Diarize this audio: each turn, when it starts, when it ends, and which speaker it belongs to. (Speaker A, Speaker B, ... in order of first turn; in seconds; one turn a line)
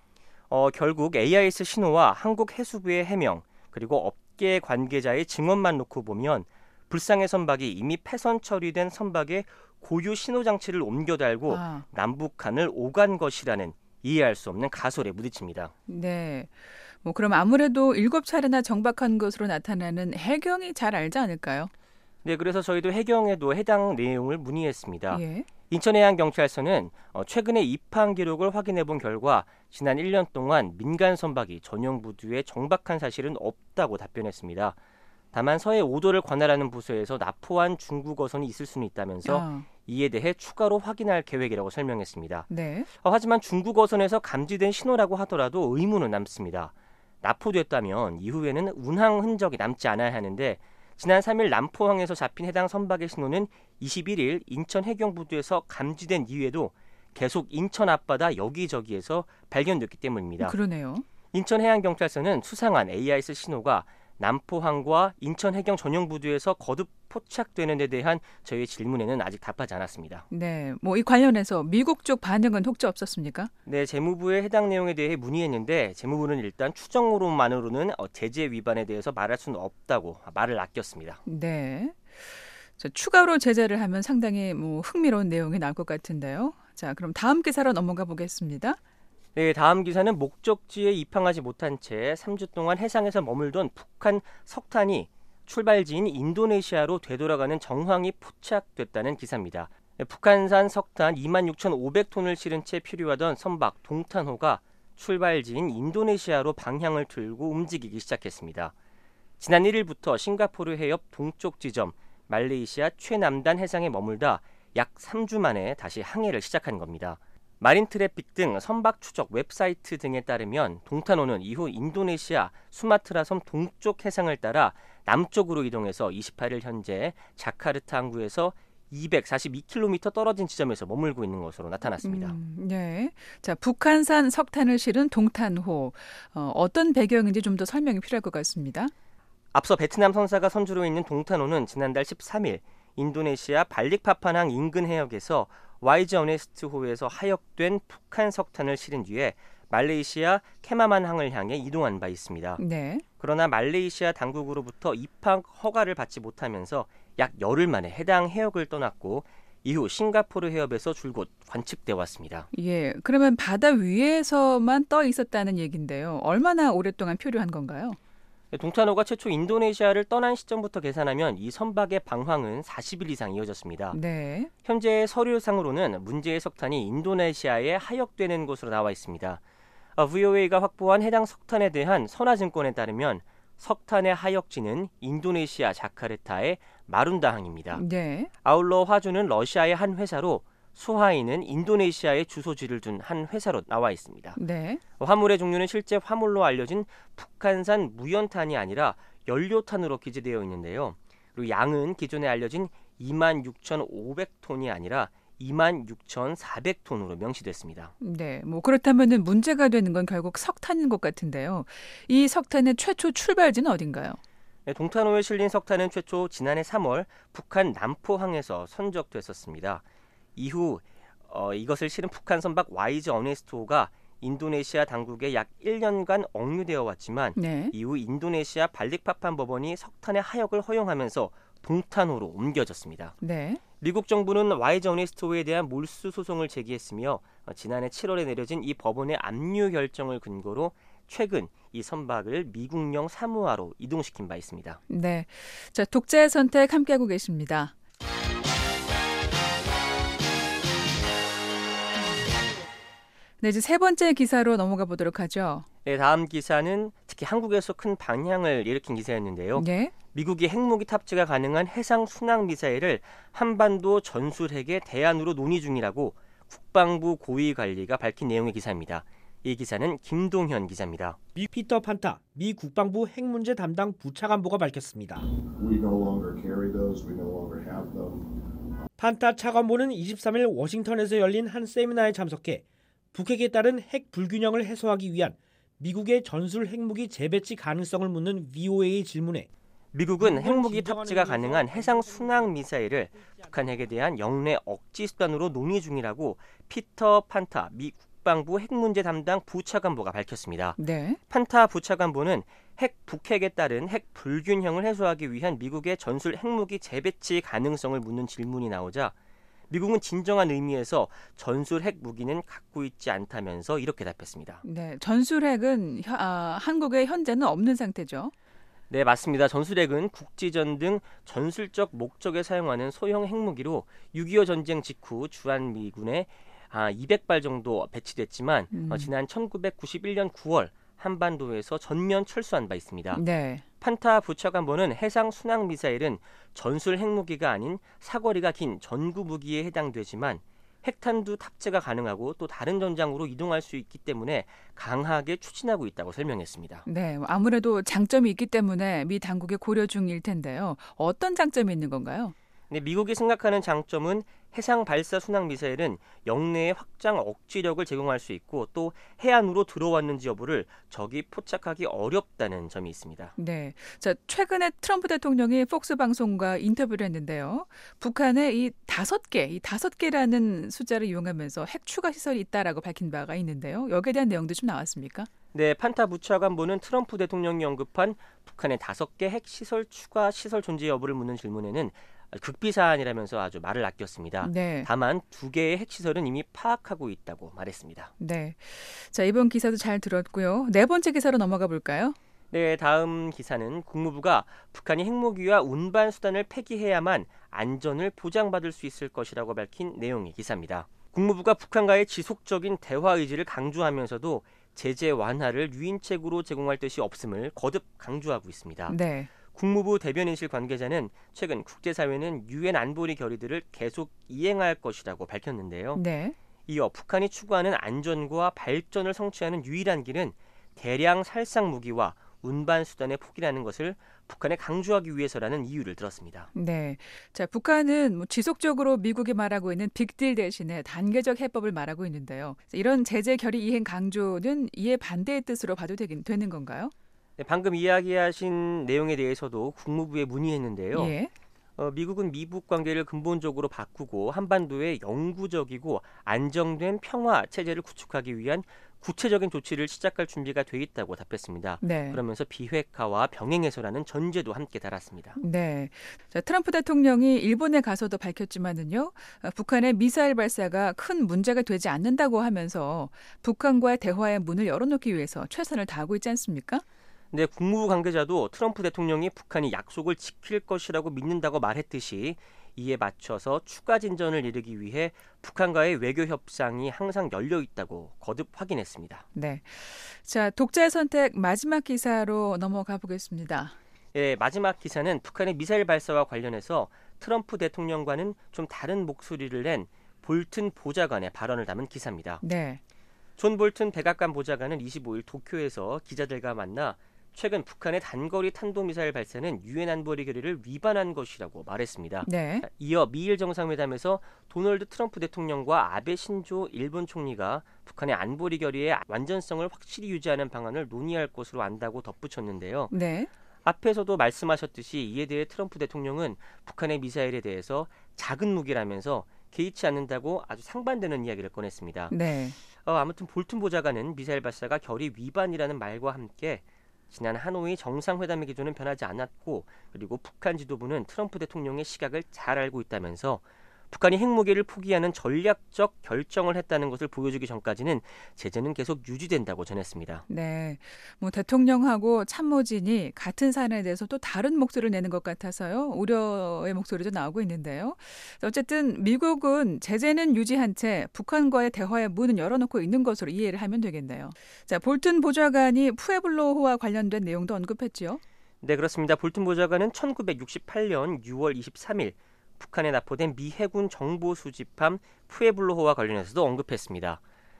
Speaker A: 0.5-15.7
Speaker B: 11.5-11.8
Speaker B: 15.9-21.7
Speaker A: 22.2-34.8
Speaker B: 25.1-25.5
Speaker A: 35.3-42.5
Speaker B: 39.2-39.7
Speaker B: 42.5-42.9
Speaker A: 43.0-60.5
Speaker B: 60.4-61.0
Speaker A: 61.3-70.2
Speaker B: 70.3-73.5
Speaker A: 73.7-81.2
Speaker B: 81.2-88.8
Speaker A: 89.3-108.7
Speaker A: 109.4-132.4
Speaker B: 132.0-138.9
Speaker A: 139.5-152.6
Speaker B: 152.6-153.0
Speaker A: 153.2-162.5
Speaker B: 162.5-168.0
Speaker A: 168.5-174.0
Speaker B: 173.9-174.5
Speaker A: 174.6-179.4
Speaker A: 179.9-187.8
Speaker B: 187.7-188.3
Speaker A: 188.4-194.4
Speaker B: 194.4-194.8
Speaker A: 195.0-207.9
Speaker B: 208.0-214.2
Speaker A: 214.7-219.8
Speaker A: 220.4-233.2
Speaker B: 227.4-227.7
Speaker B: 233.2-233.6
Speaker A: 233.8-244.8
Speaker B: 244.9-247.7
Speaker B: 253.4-255.7
Speaker A: 255.8-271.2
Speaker B: 259.6-259.9
Speaker C: 271.4-275.2
Speaker D: 275.6-278.3
Speaker C: 279.0-289.5
Speaker A: 289.9-300.8
Speaker C: 290.2-292.4
Speaker B: 300.8-301.2
Speaker A: 301.3-309.1
Speaker A: 309.7-314.6
Speaker B: 314.6-318.3
Speaker A: 318.9-333.2
Speaker B: 328.7-329.1
Speaker B: 333.1-333.6
Speaker A: 333.8-346.9
Speaker B: 346.9-352.3
Speaker A: 352.7-363.4
Speaker B: 363.4-375.3
Speaker A: 375.5-388.1
Speaker B: 384.4-384.9
Speaker B: 388.2-392.1
Speaker A: 392.5-416.0
Speaker B: 408.9-409.3
Speaker B: 415.9-416.4
Speaker A: 416.7-426.5
Speaker B: 426.5-436.9
Speaker A: 437.4-441.1
Speaker B: 440.9-441.3
Speaker A: 441.8-455.4
Speaker B: 451.8-452.2
Speaker B: 455.4-466.8
Speaker A: 467.3-479.3
Speaker B: 479.4-483.8
Speaker A: 484.1-492.4
Speaker B: 492.4-492.8
Speaker A: 493.4-512.9
Speaker B: 502.2-502.6
Speaker B: 512.9-513.3
Speaker A: 513.6-522.1
Speaker B: 522.1-522.6
Speaker A: 522.8-540.2
Speaker B: 540.3-558.2
Speaker A: 558.6-567.2